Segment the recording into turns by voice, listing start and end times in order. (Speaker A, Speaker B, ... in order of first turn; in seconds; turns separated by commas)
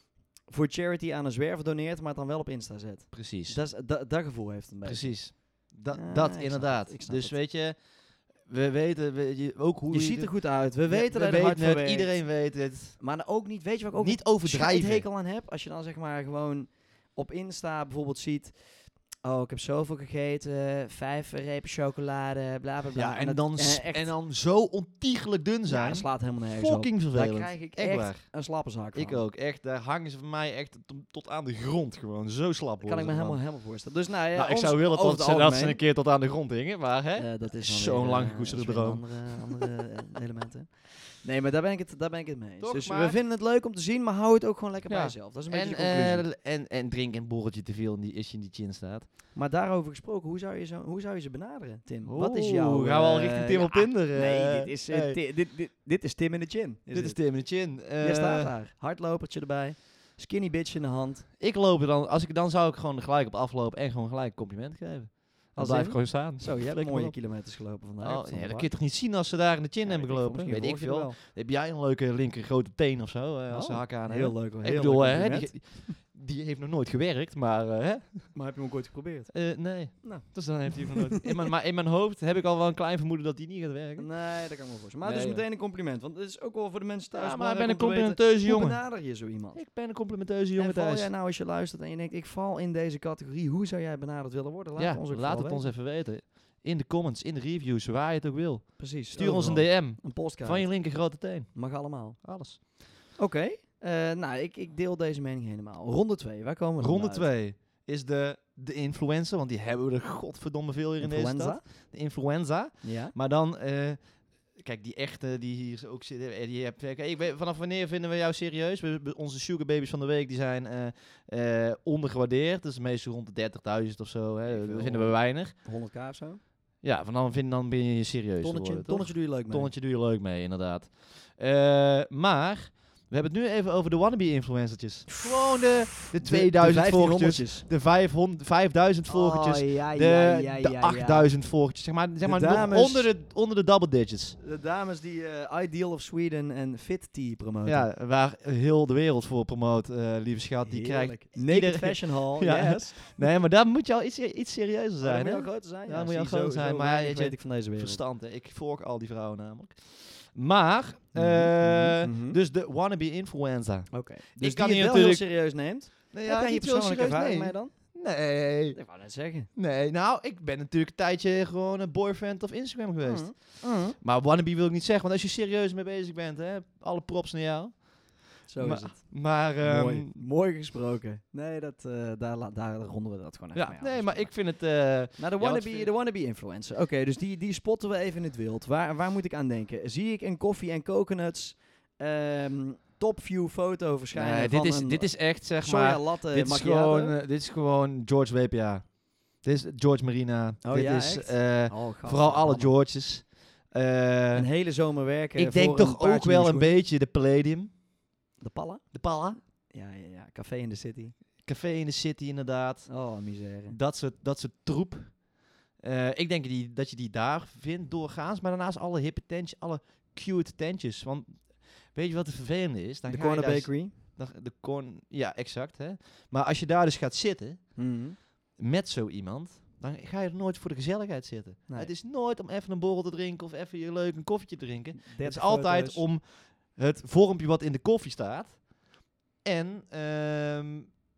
Speaker A: 0.5-7.4, Speaker B: 3.1-3.6, Speaker B: 4.8-13.0, Speaker A: 9.9-12.4, Speaker A: 13.0-24.1, Speaker B: 14.0-15.1, Speaker B: 22.9-28.3, Speaker A: 25.7-29.2, Speaker B: 28.9-33.4, Speaker A: 32.8-35.8, Speaker B: 34.3-39.7, Speaker A: 37.2-46.2, Speaker B: 42.6-43.2, Speaker B: 44.9-49.1, Speaker A: 49.4-61.2, Speaker B: 52.1-55.2, Speaker B: 56.9-58.5, Speaker B: 61.4-67.2, Speaker A: 65.5-68.7, Speaker B: 68.0-78.3, Speaker A: 69.8-71.2, Speaker A: 73.5-76.0, Speaker A: 78.3-79.3, Speaker B: 79.3-84.1, Speaker A: 79.9-81.3, Speaker A: 84.0-89.7, Speaker B: 85.0-85.4, Speaker B: 87.1-91.1, Speaker A: 90.6-95.7, Speaker B: 94.8-102.6, Speaker A: 98.8-102.2, Speaker A: 103.2-107.3, Speaker B: 106.8-114.0, Speaker A: 111.0-111.6, Speaker A: 112.8-113.2, Speaker B: 114.5-125.5, Speaker A: 124.5-126.4, Speaker B: 126.8-144.4, Speaker A: 128.4-129.7, Speaker A: 135.2-137.7, Speaker A: 139.1-141.3, Speaker A: 142.2-143.1, Speaker A: 144.4-147.9, Speaker B: 147.7-165.4, Speaker A: 150.7-153.2, Speaker A: 155.0-158.0, Speaker A: 161.1-162.4, Speaker A: 163.9-168.0, Speaker B: 166.1-168.8, Speaker A: 168.7-169.5, Speaker B: 169.5-180.1, Speaker A: 173.0-174.0, Speaker A: 178.5-184.5, Speaker B: 183.6-185.9, Speaker A: 185.2-197.2, Speaker B: 194.1-204.5, Speaker A: 200.6-202.8, Speaker A: 204.3-206.8, Speaker B: 205.3-207.8, Speaker A: 208.4-208.9, Speaker B: 208.9-209.4, Speaker A: 209.7-211.1, Speaker B: 211.4-213.0, Speaker A: 212.9-213.8, Speaker B: 213.7-215.2, Speaker B: 215.8-227.9, Speaker A: 223.1-224.0, Speaker A: 227.8-228.2, Speaker B: 228.6-238.7, Speaker A: 234.9-236.1, Speaker B: 239.4-241.0